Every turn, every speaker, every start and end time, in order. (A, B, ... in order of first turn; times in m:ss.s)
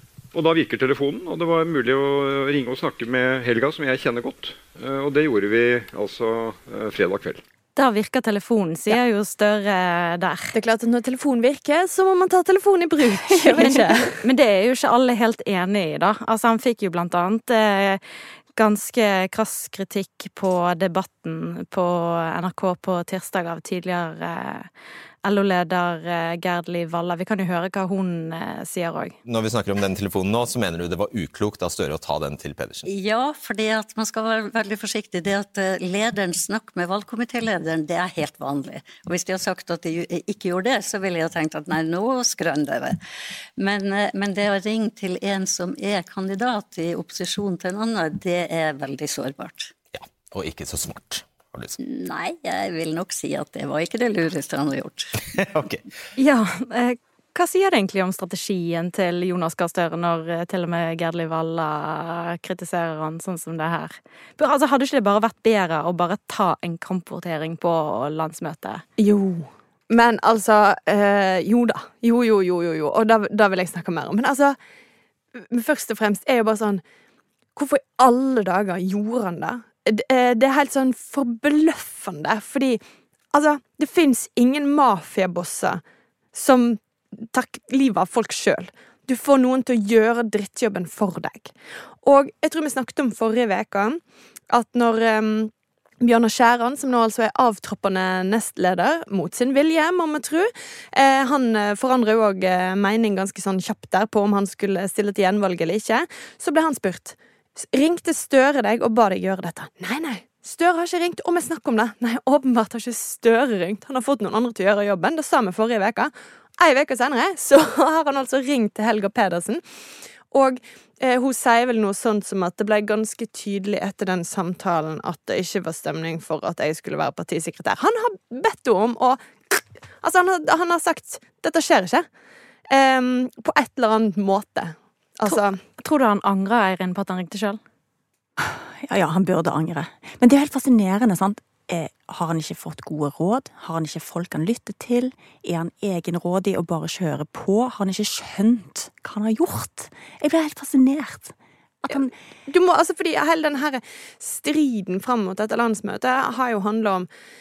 0:00.3-0:07.4 A
0:07.8-0:10.5 B
0:10.5-0:14.2 C
0:13.4-0:13.8 D
0:13.6-0:18.0 B
0:18.6-0:24.7 B
0:25.2-0:29.2 B
0:29.2-0:32.8 E
0:32.8-0:43.0 F
0:43.6-0:49.8 F
0:49.9-0:51.8 E
0:51.8-0:55.1 F
0:55.4-0:55.8 E
0:56.2-1:08.8 B
1:09.0-1:14.6 C
1:15.3-1:16.8 C
1:17.6-1:22.8 C
1:23.3-1:25.8 C
1:26.3-1:59.6 C
2:00.3-2:12.0 C
2:12.7-2:15.6 C
2:15.3-2:17.6 B
2:18.4-2:32.1 D
2:31.9-2:37.1 C